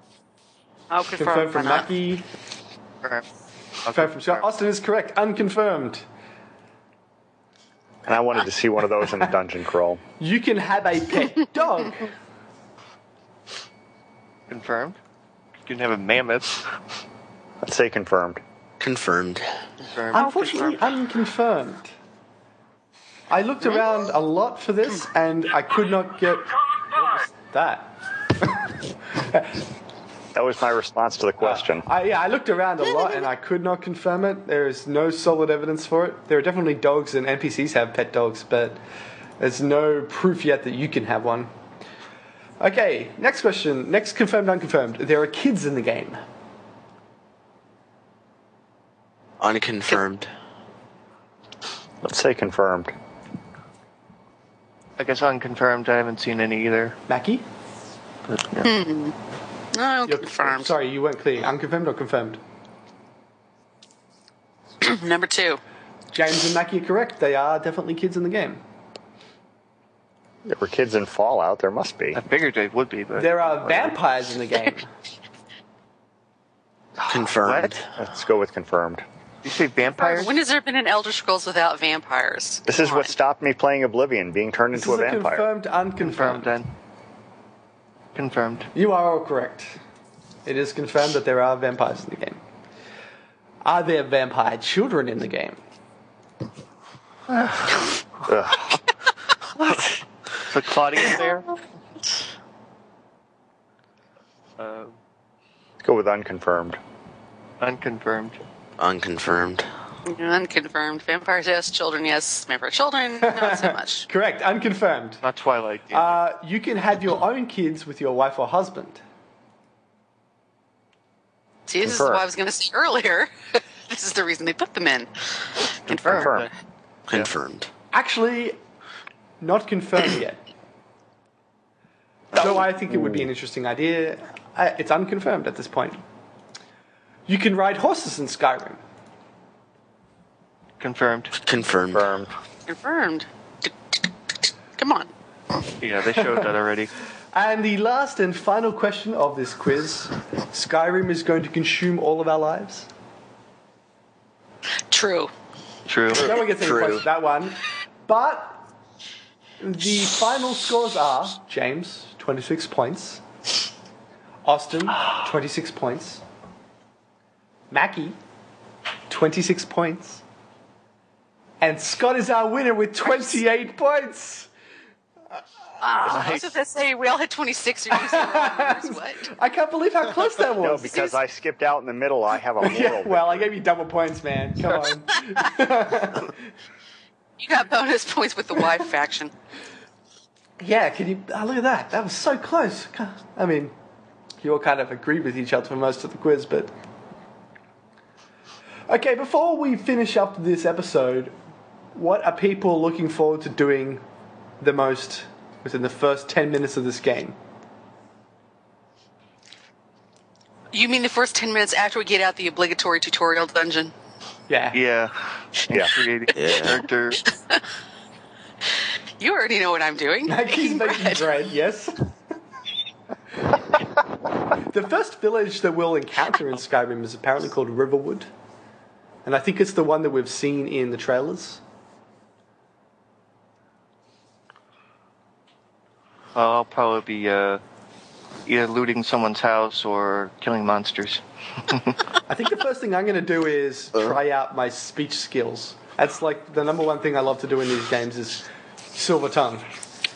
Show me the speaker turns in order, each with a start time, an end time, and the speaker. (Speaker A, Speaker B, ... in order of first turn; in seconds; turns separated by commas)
Speaker A: 0.9-1.9, Speaker B: 1.2-2.2, Speaker C: 3.8-4.4, Speaker B: 3.9-6.0, Speaker D: 8.0-10.0, Speaker B: 10.2-12.1, Speaker C: 14.5-15.0, Speaker C: 15.6-16.6, Speaker D: 17.6-18.4, Speaker E: 18.8-19.5, Speaker C: 19.8-20.7, Speaker B: 20.1-21.9, Speaker A: 20.1-20.7, Speaker B: 23.3-29.5, Speaker D: 30.3-31.9, Speaker B: 31.4-38.8, Speaker A: 33.0-33.2, Speaker B: 39.4-41.5, Speaker B: 42.6-46.2, Speaker E: 49.4-50.3, Speaker D: 52.0-52.9, Speaker C: 55.0-57.0, Speaker B: 57.1-57.4, Speaker C: 58.3-58.7, Speaker A: 58.6-59.1, Speaker A: 59.7-60.8, Speaker B: 60.0-62.4, Speaker A: 64.8-65.6, Speaker B: 66.1-68.6, Speaker D: 70.4-72.2, Speaker C: 72.1-73.9, Speaker B: 73.2-74.9, Speaker E: 77.1-77.8, Speaker C: 77.4-77.8, Speaker D: 78.0-79.0, Speaker C: 79.4-80.3, Speaker A: 79.8-83.1, Speaker D: 82.7-85.5, Speaker B: 84.7-86.5, Speaker C: 86.0-86.7, Speaker C: 88.1-88.7, Speaker B: 88.7-89.8, Speaker B: 90.5-92.4, Speaker B: 93.6-95.6, Speaker C: 97.3-97.8, Speaker D: 98.2-98.8, Speaker C: 99.6-101.6, Speaker C: 104.6-105.0, Speaker D: 105.8-106.8, Speaker C: 107.6-108.4, Speaker E: 108.8-109.7, Speaker A: 110.0-114.1, Speaker B: 113.2-115.2, Speaker C: 115.2-116.2, Speaker B: 115.9-119.0, Speaker A: 121.7-126.5, Speaker D: 121.8-122.2, Speaker C: 125.9-126.5, Speaker D: 125.9-126.5, Speaker E: 127.1-127.7, Speaker B: 127.9-128.6, Speaker B: 129.4-130.4, Speaker B: 132.3-136.0, Speaker B: 137.3-138.8, Speaker C: 140.8-141.3, Speaker E: 141.4-142.1, Speaker D: 141.9-142.3, Speaker A: 142.7-144.0, Speaker A: 144.8-145.1, Speaker C: 145.8-146.9, Speaker B: 147.3-152.9, Speaker A: 154.9-155.3, Speaker C: 155.9-156.3, Speaker E: 156.1-157.0, Speaker B: 156.1-158.6, Speaker B: 159.6-163.2, Speaker B: 164.4-166.2, Speaker B: 167.7-168.2, Speaker B: 169.1-170.2, Speaker B: 171.6-174.5, Speaker A: 173.0-173.4, Speaker A: 175.8-179.3, Speaker C: 176.1-176.5, Speaker B: 177.9-181.0, Speaker D: 180.6-183.5, Speaker B: 182.6-186.4, Speaker A: 187.4-189.3, Speaker B: 190.6-193.7, Speaker B: 194.4-196.7, Speaker B: 198.9-201.3, Speaker B: 201.9-204.0, Speaker B: 204.6-207.3, Speaker A: 210.7-213.9, Speaker B: 214.5-214.8, Speaker C: 214.7-217.2, Speaker E: 216.3-216.8, Speaker A: 217.2-217.6, Speaker A: 219.2-221.3, Speaker B: 220.2-222.0, Speaker B: 224.7-228.3, Speaker B: 229.2-231.6, Speaker C: 236.3-237.6, Speaker C: 238.4-241.9, Speaker B: 242.3-249.7